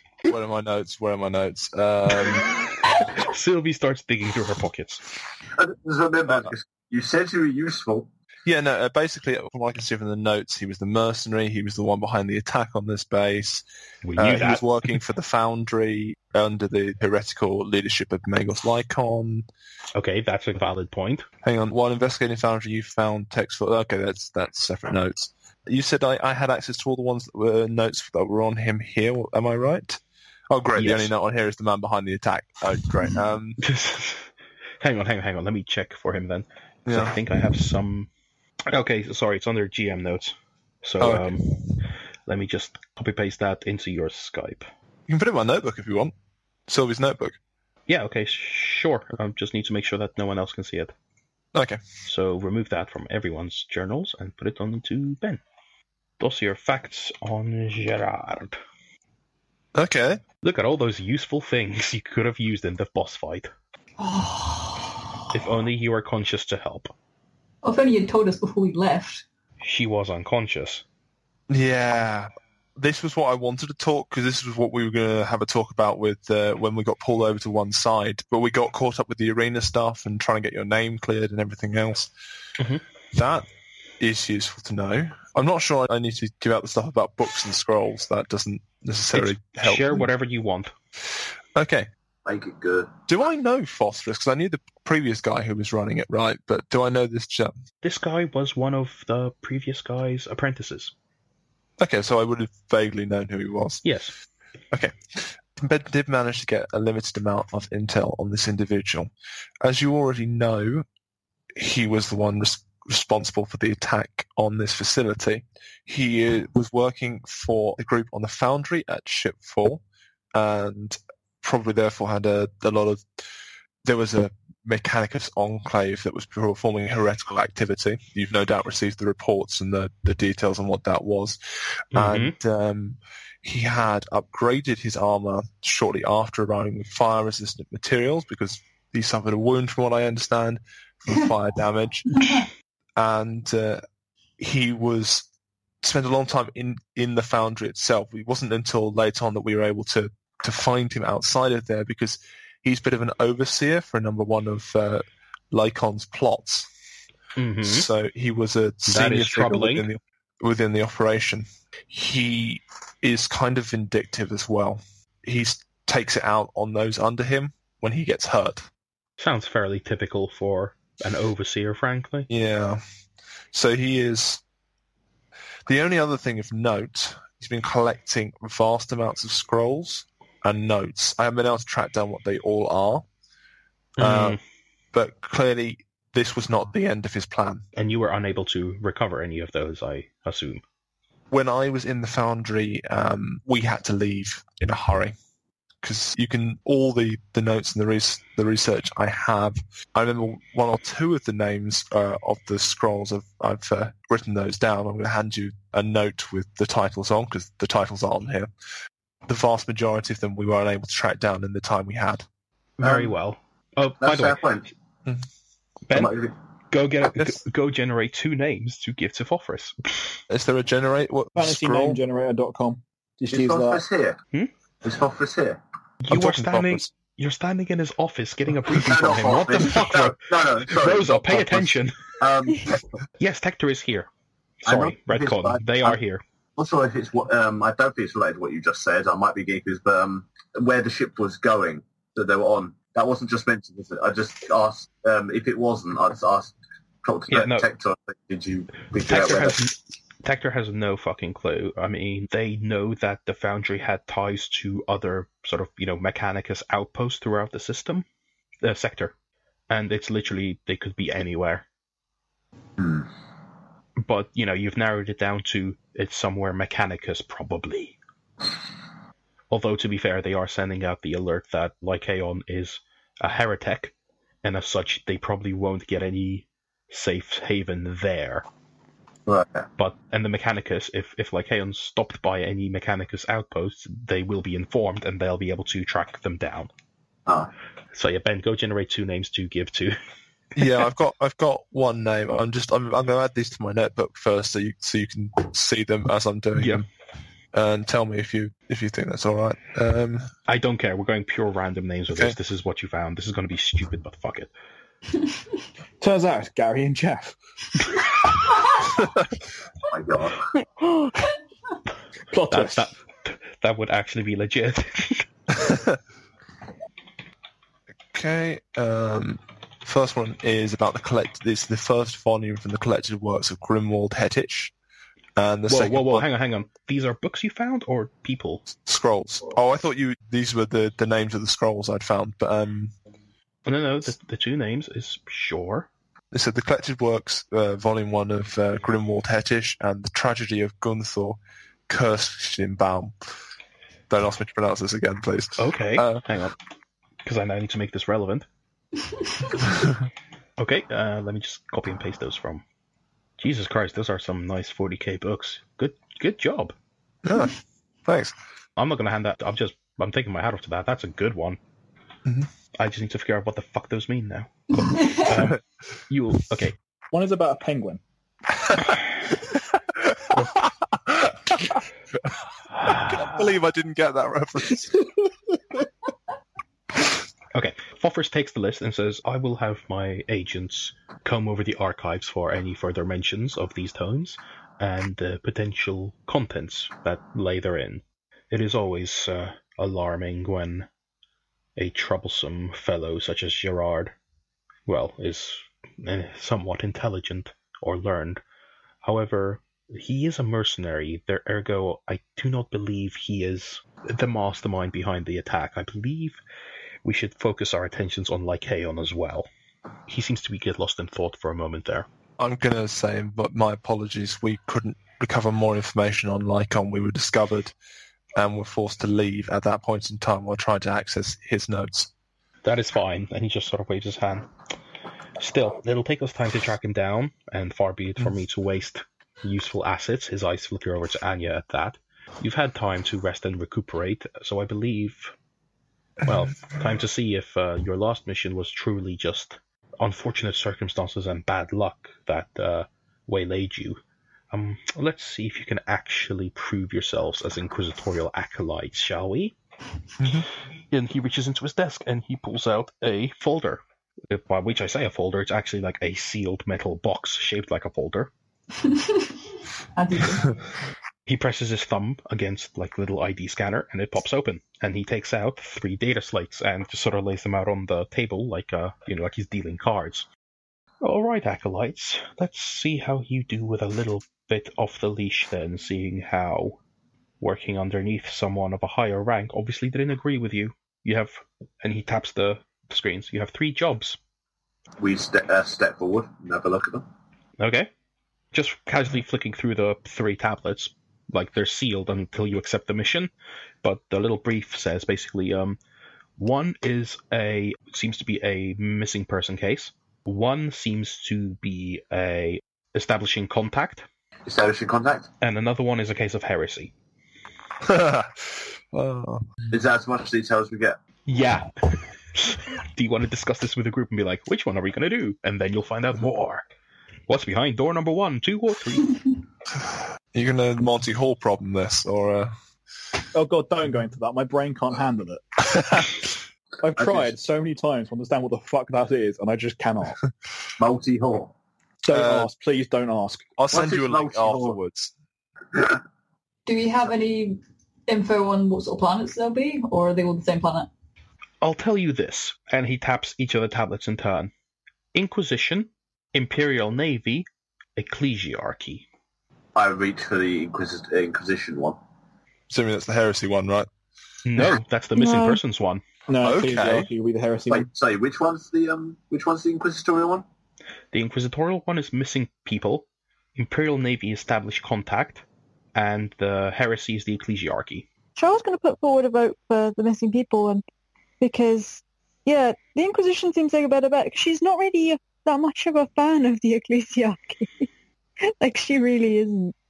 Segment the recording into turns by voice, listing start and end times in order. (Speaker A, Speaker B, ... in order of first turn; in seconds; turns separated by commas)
Speaker A: 0.2-2.5, Speaker B: 3.0-5.0, Speaker C: 5.5-8.1, Speaker A: 8.4-13.6, Speaker B: 14.0-15.0, Speaker A: 14.2-19.4, Speaker B: 19.9-21.3, Speaker A: 21.4-33.6, Speaker B: 30.8-31.1, Speaker B: 33.6-34.3, Speaker B: 34.8-38.1, Speaker A: 36.9-37.2, Speaker B: 38.7-41.4, Speaker A: 41.0-41.6, Speaker B: 42.3-44.7, Speaker A: 45.1-46.1, Speaker A: 46.7-47.4, Speaker B: 47.9-50.9, Speaker A: 51.5-51.8, Speaker B: 52.0-55.4, Speaker B: 56.2-58.6, Speaker A: 59.7-60.2, Speaker B: 60.4-63.5, Speaker D: 64.0-65.1, Speaker B: 65.3-66.9, Speaker D: 67.6-69.2, Speaker B: 69.6-70.8, Speaker A: 71.5-82.1, Speaker A: 83.1-83.5, Speaker A: 84.0-90.1, Speaker B: 89.1-90.7, Speaker A: 91.5-91.9, Speaker C: 92.2-93.0, Speaker A: 93.1-97.5, Speaker B: 97.8-100.9, Speaker A: 101.8-103.8, Speaker B: 103.8-104.1, Speaker A: 104.7-109.1, Speaker A: 109.6-110.8, Speaker A: 111.5-119.8, Speaker A: 120.3-123.2, Speaker A: 123.8-131.4, Speaker A: 131.9-143.8, Speaker B: 131.9-132.3, Speaker D: 142.1-142.4, Speaker A: 144.4-145.3, Speaker A: 145.8-156.7, Speaker B: 157.3-157.9, Speaker A: 157.6-168.7, Speaker B: 158.9-159.9, Speaker B: 169.2-172.3, Speaker A: 172.3-172.8, Speaker A: 173.5-174.4, Speaker A: 175.7-183.1, Speaker A: 184.0-184.4, Speaker B: 184.0-184.4, Speaker A: 184.9-187.6, Speaker B: 187.8-190.6, Speaker A: 191.3-195.1, Speaker A: 195.8-208.5, Speaker A: 209.3-212.2, Speaker B: 212.8-214.4, Speaker C: 212.8-213.1, Speaker C: 214.0-214.7, Speaker B: 215.9-216.1, Speaker C: 215.9-216.3, Speaker B: 216.7-219.7, Speaker A: 220.3-222.0, Speaker E: 221.3-223.8, Speaker C: 223.3-224.2, Speaker C: 224.8-225.6, Speaker B: 226.0-232.1, Speaker A: 226.1-226.9, Speaker C: 228.7-233.0, Speaker B: 233.2-234.1, Speaker B: 234.6-236.2, Speaker C: 234.7-236.0, Speaker C: 236.6-249.6, Speaker B: 247.3-247.6, Speaker B: 249.1-258.1, Speaker B: 258.6-259.1, Speaker B: 259.7-261.6, Speaker C: 262.8-263.1, Speaker B: 264.0-268.0, Speaker B: 269.5-278.4, Speaker C: 279.2-279.6, Speaker B: 279.8-286.7, Speaker B: 287.9-290.0, Speaker A: 290.5-296.9, Speaker B: 296.6-296.8, Speaker A: 297.5-300.3, Speaker B: 300.5-304.5, Speaker E: 306.0-307.3, Speaker C: 309.9-310.4, Speaker F: 310.6-311.1, Speaker E: 312.3-312.9, Speaker B: 312.5-315.3, Speaker A: 315.5-316.0, Speaker A: 318.1-324.7, Speaker A: 325.4-326.2, Speaker B: 325.7-328.6, Speaker A: 328.7-332.9, Speaker B: 333.6-335.9, Speaker A: 336.3-341.4, Speaker A: 341.9-343.1, Speaker A: 344.1-346.2, Speaker B: 345.6-346.5, Speaker B: 347.2-348.4, Speaker B: 350.6-352.6, Speaker B: 353.4-356.7, Speaker A: 357.2-358.3, Speaker B: 358.8-361.6, Speaker B: 362.8-366.8, Speaker D: 364.8-365.2, Speaker E: 367.1-368.0, Speaker A: 368.6-368.9, Speaker A: 370.1-372.3, Speaker B: 372.8-373.5, Speaker A: 372.8-375.1, Speaker B: 377.5-390.9, Speaker B: 391.8-394.1, Speaker B: 394.9-398.4, Speaker B: 399.0-406.4, Speaker B: 407.0-409.5, Speaker B: 410.1-412.1, Speaker A: 412.4-417.7, Speaker A: 418.4-422.1, Speaker B: 422.6-424.5, Speaker B: 425.4-435.3, Speaker B: 436.2-444.0, Speaker B: 444.5-449.5, Speaker A: 450.2-450.5, Speaker B: 450.9-458.3, Speaker D: 458.8-459.4, Speaker D: 459.9-460.5, Speaker B: 461.3-470.3, Speaker B: 471.0-476.8, Speaker B: 477.4-484.2, Speaker C: 485.0-487.0, Speaker B: 487.6-487.9, Speaker B: 488.5-493.3, Speaker B: 493.8-495.8, Speaker B: 496.4-504.1, Speaker C: 504.5-505.3, Speaker B: 505.4-506.9, Speaker A: 507.8-509.5, Speaker C: 509.7-511.0, Speaker B: 511.3-516.6, Speaker B: 517.3-519.2, Speaker A: 520.3-522.5, Speaker E: 523.3-525.4, Speaker A: 525.7-526.3, Speaker E: 526.8-530.2, Speaker C: 527.0-527.3, Speaker C: 530.8-531.5, Speaker E: 532.0-533.5, Speaker A: 532.1-532.5, Speaker A: 533.6-535.1, Speaker C: 533.7-534.8, Speaker C: 535.7-536.0, Speaker D: 536.6-540.9, Speaker B: 541.6-544.5, Speaker B: 545.1-549.0, Speaker C: 549.7-552.0, Speaker A: 552.7-553.9, Speaker B: 554.4-556.0, Speaker F: 555.2-555.6, Speaker E: 556.3-557.9, Speaker A: 556.4-557.1, Speaker C: 557.7-560.4, Speaker B: 561.1-565.4, Speaker B: 565.9-568.0, Speaker F: 568.4-570.8, Speaker F: 571.4-577.9, Speaker F: 578.5-579.7